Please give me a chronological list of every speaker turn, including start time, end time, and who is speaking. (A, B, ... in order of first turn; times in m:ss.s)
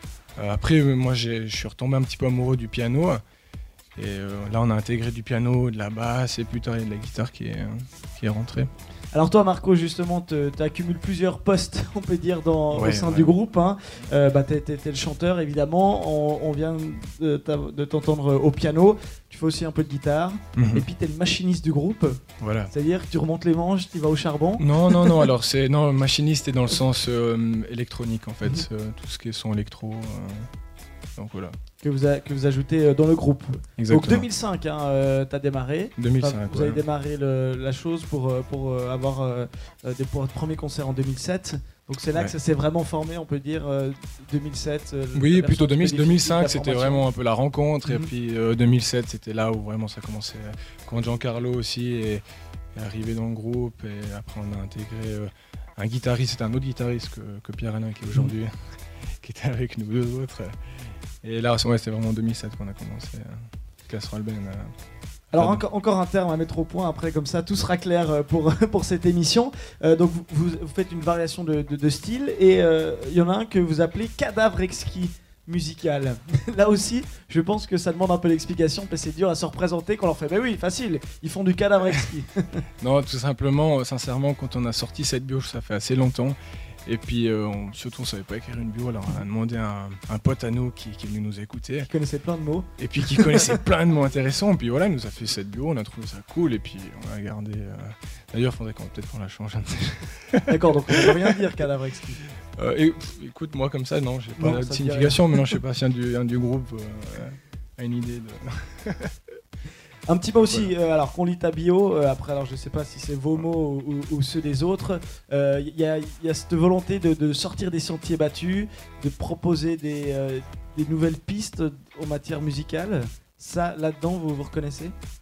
0:00.4-0:03.2 A
0:03.9-0:08.7 A
0:09.1-0:25.2 B
0:12.7-0:13.3 A
0:20.5-0:20.8 A
0:22.4-0:22.7 A
0:24.6-0:30.5 A
0:31.1-0:31.6 A
0:31.8-0:47.0 B
0:33.8-0:34.3 A
0:36.0-0:36.8 A
0:45.1-1:04.8 A
1:05.3-1:05.6 A
1:05.3-1:22.6 B
1:22.8-1:31.9 A
1:31.9-1:33.6 B
1:32.8-1:40.4 A
1:40.5-1:42.2 B
1:42.4-1:49.1 A
1:44.4-1:45.3 B
1:50.1-2:04.9 B